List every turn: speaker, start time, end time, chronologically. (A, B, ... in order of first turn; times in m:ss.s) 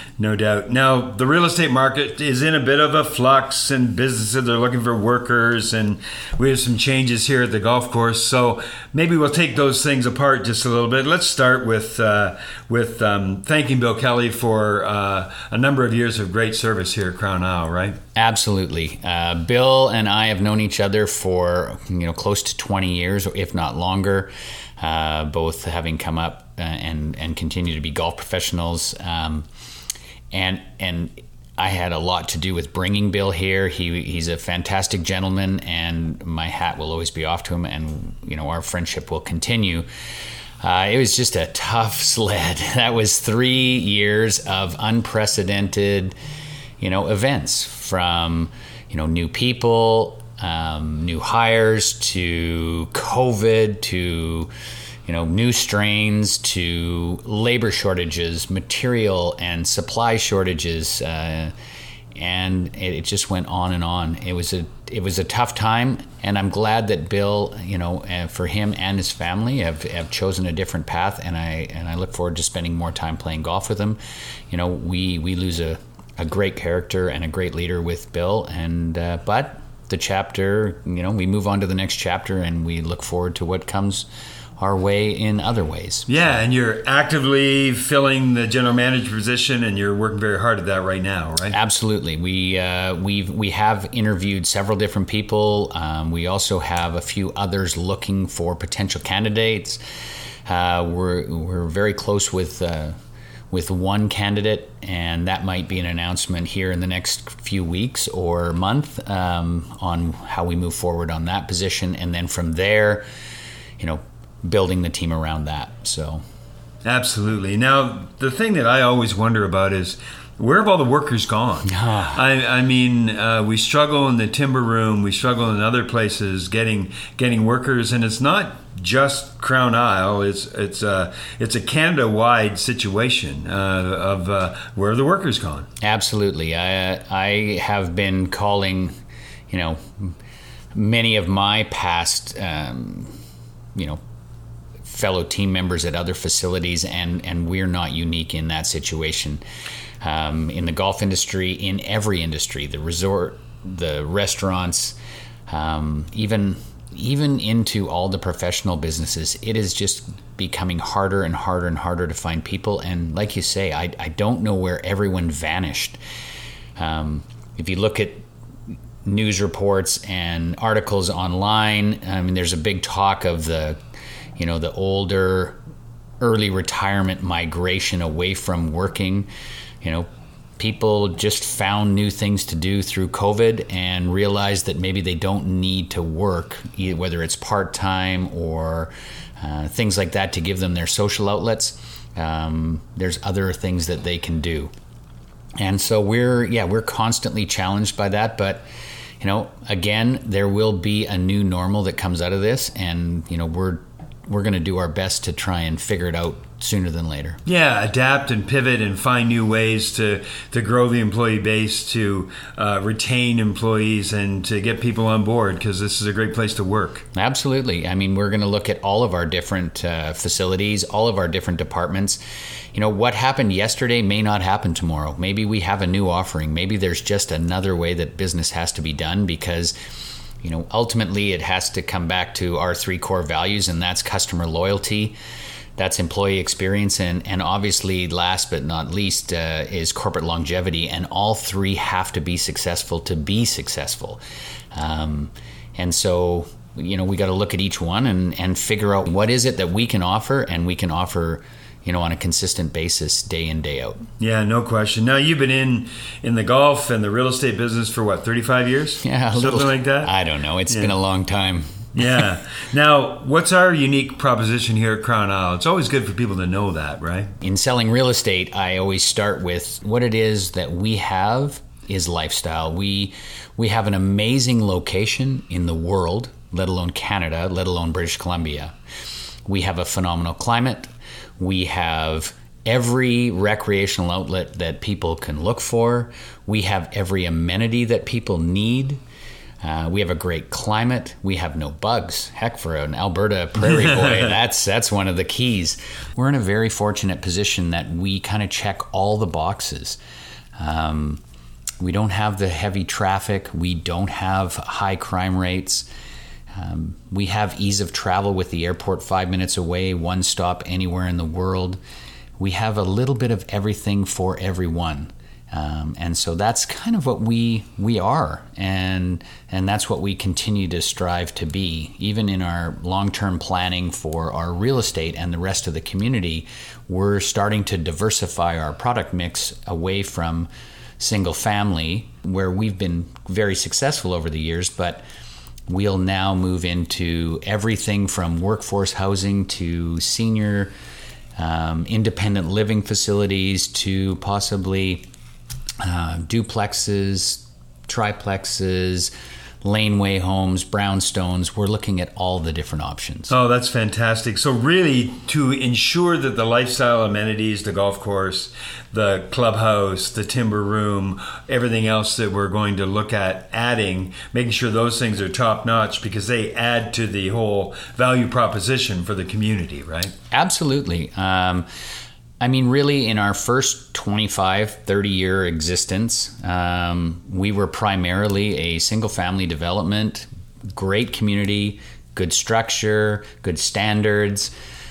0:00.2-0:18.0 A
0:18.2-0:29.5 B
0:30.3-0:39.9 B
0:40.6-0:46.2 B
0:46.8-0:54.5 B
0:55.1-1:01.5 B
1:02.2-1:14.0 B
1:14.5-1:24.1 B
1:24.6-1:26.1 B
1:26.1-1:31.6 A
1:31.5-1:39.8 B
1:40.5-1:43.0 B
1:43.5-1:53.0 B
1:53.8-1:56.2 B
1:56.8-2:15.7 A
2:01.6-2:02.2 B
2:15.8-2:18.9 B
2:19.5-2:20.1 B
2:20.8-2:23.1 B
2:23.8-2:24.0 B
2:24.8-2:29.4 B
2:30.0-2:35.0 B
2:35.5-2:46.0 B
2:46.8-2:48.3 B
2:49.0-2:53.8 B
2:54.4-2:55.6 B
2:56.2-2:59.3 B
2:59.8-3:00.1 B
3:00.6-3:14.7 B
3:15.6-3:18.7 B
3:19.2-3:27.4 B
3:27.4-3:37.0 A
3:37.1-3:42.2 B
3:42.7-3:49.8 B
3:50.4-3:55.2 B
3:55.8-4:04.2 B
4:04.7-4:14.0 B
4:14.2-4:20.1 A
4:19.0-4:22.3 B
4:22.0-4:27.3 A
4:27.4-4:38.8 B
4:39.5-4:49.0 B
4:49.6-5:00.0 B
4:53.6-4:54.3 A
5:00.6-5:01.2 B
5:01.8-5:05.9 B
5:06.5-5:11.8 B
5:12.4-5:35.0 B
5:35.7-5:40.7 B
5:41.4-5:45.1 B
5:45.8-5:53.3 B
5:53.3-6:10.1 A
6:10.3-6:11.7 B
6:12.4-6:24.5 B